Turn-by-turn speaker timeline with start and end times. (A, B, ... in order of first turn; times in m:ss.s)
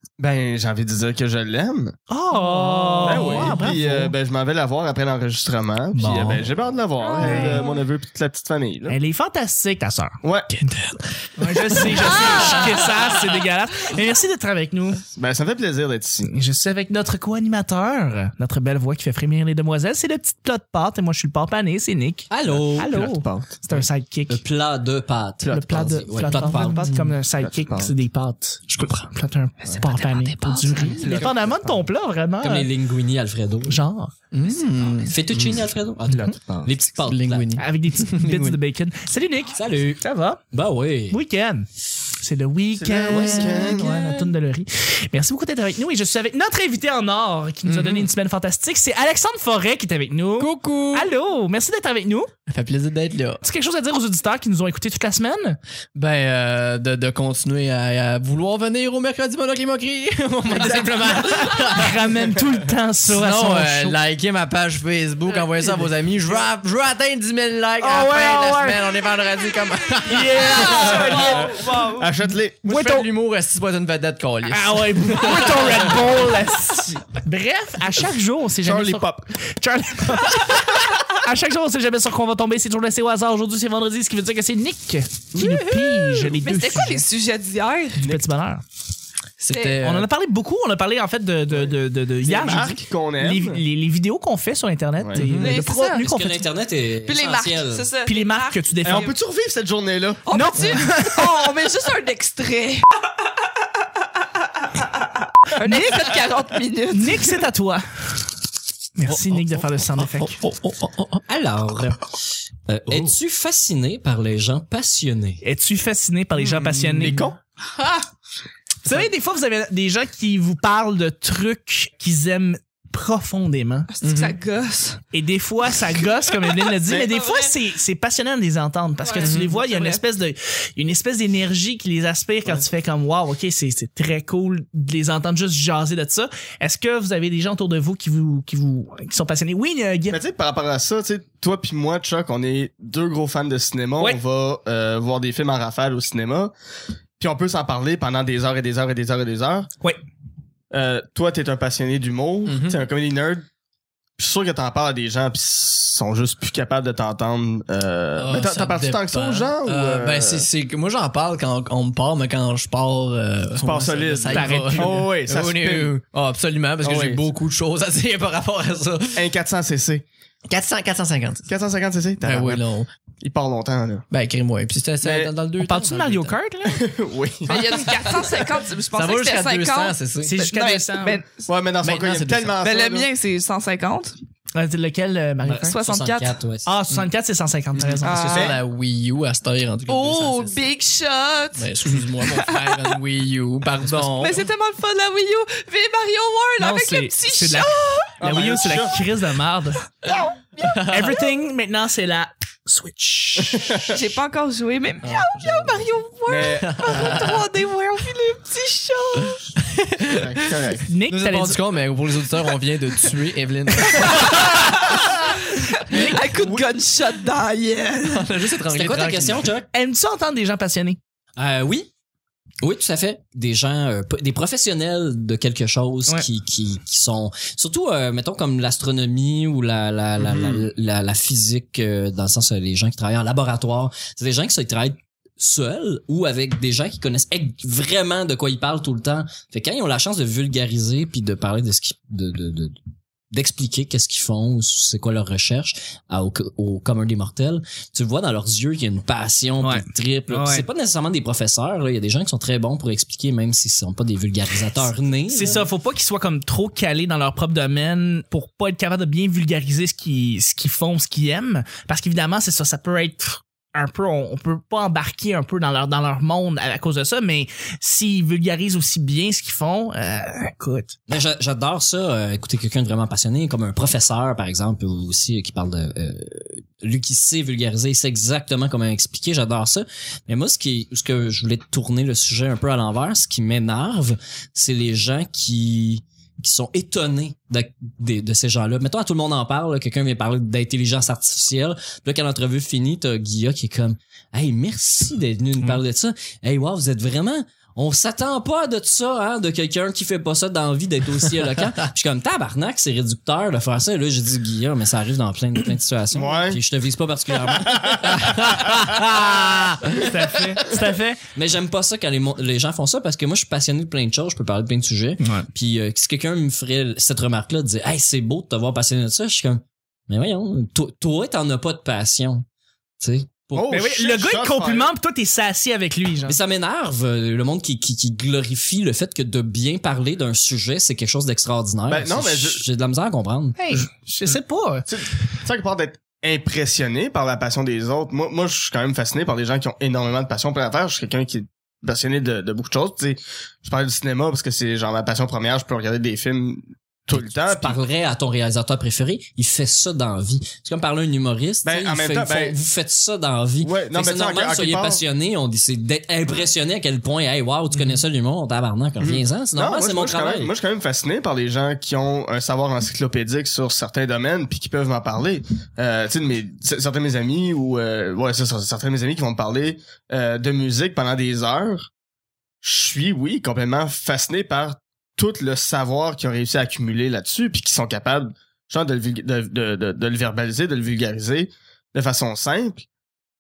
0:00.2-0:02.0 A
0:02.1-0:04.1 B
0:03.0-0:09.0 A
0:05.9-0:06.4 B
0:07.0-0:07.7 C
0:07.2-0:07.6 B
0:08.9-0:10.7 B
0:10.2-0:10.5 A
0:11.4-0:15.0 B
0:11.5-0:12.9 D
0:15.1-0:16.3 A
0:16.2-0:24.4 B
0:22.3-0:23.1 E
0:22.5-0:23.5 A
0:24.3-0:26.9 E
0:25.4-0:26.0 A
0:25.5-0:32.7 B
0:26.8-0:27.1 D
0:27.4-0:27.9 A
0:29.8-0:31.2 C
0:31.0-0:31.9 A
0:32.4-0:33.8 E
0:33.7-0:34.1 B
0:34.3-0:35.1 D
0:35.0-0:37.5 E
0:35.4-0:36.7 A
0:37.0-0:38.6 D
0:37.6-0:40.4 B
0:39.6-0:41.2 E
0:41.1-0:41.7 B
0:42.2-0:52.3 B
0:42.7-0:44.2 A
0:43.1-0:43.7 E
0:47.6-0:48.1 D
0:52.5-0:53.4 D
0:53.4-0:55.6 B
0:55.9-1:02.0 D
1:00.5-1:04.0 B
1:01.3-1:01.7 C
1:03.1-1:10.9 D
1:05.6-1:05.9 B
1:07.8-1:08.9 B
1:10.0-1:11.9 B
1:10.6-1:12.1 C
1:10.9-1:12.6 A
1:12.6-1:16.2 D
1:12.6-1:13.1 B
1:14.5-1:27.0 B
1:18.6-1:19.3 A
1:25.4-1:26.3 D
1:26.4-1:28.0 C
1:28.0-1:28.6 B
1:29.4-1:30.1 D
1:29.5-1:29.8 C
1:29.8-1:36.4 B
1:32.2-1:33.6 A
1:35.2-1:35.6 D
1:35.4-1:36.1 C
1:35.9-1:37.9 E
1:37.0-1:39.1 C
1:38.0-1:39.1 B
1:38.8-1:40.2 A
1:40.2-1:42.9 C
1:40.3-1:41.3 B
1:44.8-1:47.4 C
1:45.6-1:46.2 B
1:46.9-1:47.8 B
1:49.0-1:50.4 B
1:49.1-1:51.2 D
1:51.3-1:55.4 E
1:55.4-1:57.3 B
1:56.4-1:57.4 A
1:57.7-1:58.0 C
1:58.8-2:03.9 B
2:03.9-2:05.0 C
2:04.0-2:04.4 D
2:05.1-2:20.2 B
2:06.8-2:07.5 C
2:09.0-2:10.0 C
2:09.2-2:09.6 D
2:20.1-2:26.5 A
2:27.2-2:29.7 A
2:30.7-2:33.5 A
2:32.5-2:32.8 D
2:34.2-2:40.5 A
2:38.2-2:49.2 D
2:43.6-2:45.9 A
2:44.3-2:45.1 B
2:46.8-2:47.2 A
2:49.1-2:50.0 A
2:50.5-2:51.5 D
2:51.5-2:52.6 A
2:52.2-2:52.9 D
2:53.2-2:54.0 A
2:54.1-2:56.3 D
2:55.0-2:55.3 A
2:55.6-2:56.8 B
2:56.6-2:57.8 A
2:57.5-3:01.5 C
2:58.9-3:00.4 D
3:00.2-3:01.2 B
3:01.5-3:03.1 A
3:01.8-3:02.5 D
3:02.6-3:04.2 C
3:04.5-3:05.7 B
3:05.4-3:06.7 E
3:05.6-3:06.4 C
3:06.6-3:08.4 B
3:07.7-3:10.6 D
3:08.0-3:08.6 C
3:09.9-3:13.0 C
3:11.6-3:14.4 D
3:13.8-3:14.4 B
3:14.2-3:18.1 C
3:16.6-3:19.8 B
3:18.2-3:19.0 A
3:20.0-3:20.8 C
3:20.6-3:21.2 D
3:20.8-3:23.8 B
3:23.5-3:24.0 A
3:23.9-3:29.4 C
3:25.0-3:25.8 D
3:26.3-3:27.2 A
3:26.6-3:27.4 D
3:29.3-3:34.9 D
3:30.1-3:30.8 A
3:30.9-3:31.6 B
3:33.9-3:38.3 C
3:35.9-3:36.2 B
3:36.0-3:36.6 D
3:38.0-3:39.5 D
3:38.7-3:39.7 E
3:39.7-3:41.0 B
3:41.4-3:41.9 E
3:42.6-4:02.8 E
3:50.2-3:50.6 A
4:03.3-4:15.7 E
4:09.6-4:10.7 B
4:15.3-4:30.9 B
4:31.1-5:08.5 E
5:06.1-5:06.6 A
5:07.6-5:08.3 A
5:08.1-5:10.0 D
5:09.9-5:10.7 E
5:10.0-5:11.2 B
5:11.3-5:22.4 E
5:15.2-5:15.5 B
5:23.0-5:23.7 E
5:23.5-5:24.9 A
5:23.7-5:26.4 B
5:26.3-5:33.6 E
5:31.9-5:32.6 A
5:33.6-5:34.9 B
5:34.9-5:47.8 A
5:47.1-6:00.5 E
5:51.6-5:52.6 A
5:53.6-5:55.0 A
5:59.0-6:11.9 A
6:12.6-6:22.8 A